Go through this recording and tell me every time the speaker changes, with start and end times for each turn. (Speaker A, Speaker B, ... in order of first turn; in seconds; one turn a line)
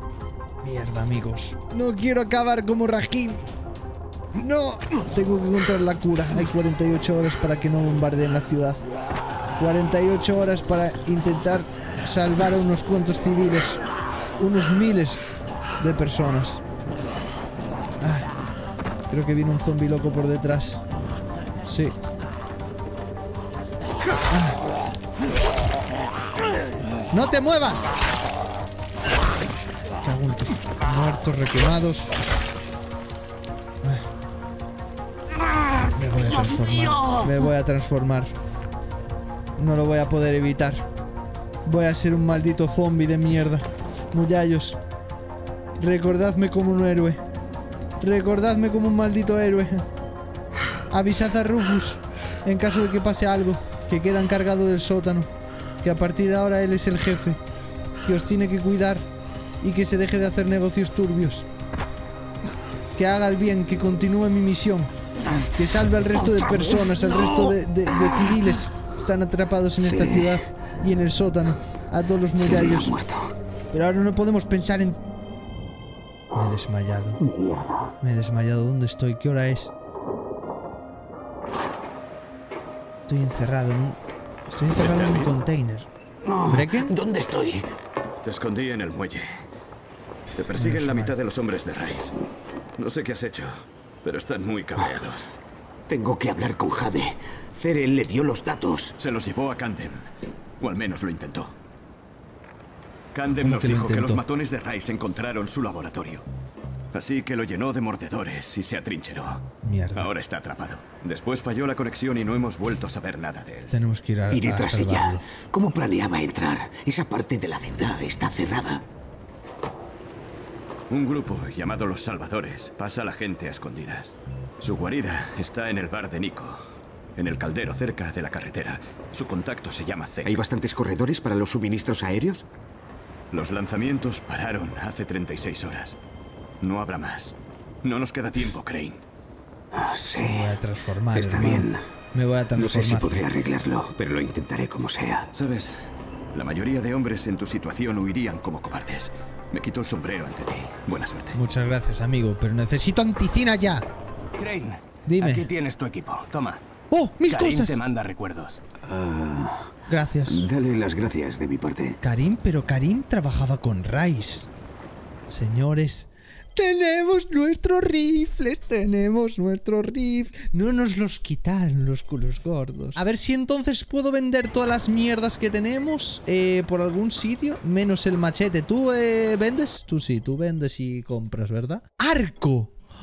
Speaker A: 0.6-3.4
Speaker A: 4.3-8.8
Speaker A: 9.6-13.8
Speaker A: 14.4-16.6
Speaker A: 18.0-18.3
Speaker A: 19.1-20.8
Speaker A: 21.6-21.9
Speaker A: 24.3-24.6
Speaker A: 27.1-28.0
Speaker A: 30.0-32.1
Speaker A: 35.9-38.3
Speaker A: 39.6-40.9
Speaker A: 41.6-44.8
Speaker A: 45.8-47.2
Speaker A: 48.0-49.8
Speaker A: 50.9-55.3
Speaker A: 55.8-57.4
Speaker A: 58.0-59.0
Speaker A: 59.6-61.5
Speaker A: 63.0-64.9
Speaker A: 65.5-72.9
Speaker B: 66.0-68.5
Speaker B: 69.8-70.5
Speaker B: 72.4-73.3
Speaker A: 73.7-75.0
Speaker A: 76.3-77.2
Speaker B: 77.2-77.7
Speaker A: 78.0-79.7
Speaker A: 83.1-84.0
Speaker A: 84.5-85.9
Speaker C: 84.8-85.3
Speaker B: 86.2-87.7
Speaker A: 86.5-86.9
Speaker C: 88.2-89.4
Speaker C: 90.3-92.1
Speaker A: 90.5-91.1
Speaker C: 92.8-95.3
Speaker B: 95.9-98.9
Speaker C: 99.0-100.1
Speaker C: 100.6-101.5
Speaker C: 103.1-106.2
Speaker A: 103.3-104.2
Speaker C: 106.9-109.4
Speaker A: 109.6-110.1
Speaker C: 109.9-113.7
Speaker A: 113.7-115.2
Speaker B: 114.3-118.8
Speaker C: 120.9-126.6
Speaker C: 127.2-130.4
Speaker B: 130.2-132.4
Speaker C: 133.3-136.0
Speaker C: 136.6-139.0
Speaker B: 139.7-140.6
Speaker A: 140.2-143.2
Speaker B: 141.1-141.8
Speaker B: 142.6-145.3
Speaker C: 145.3-145.8
Speaker C: 146.3-151.4
Speaker A: 151.3-153.8
Speaker A: 155.1-155.5
Speaker D: 155.2-156.6
Speaker A: 156.9-157.8
Speaker D: 157.3-158.6
Speaker B: 158.8-159.7
Speaker A: 159.9-160.5
Speaker B: 160.2-162.0
Speaker A: 162.0-164.5
Speaker A: 165.3-182.7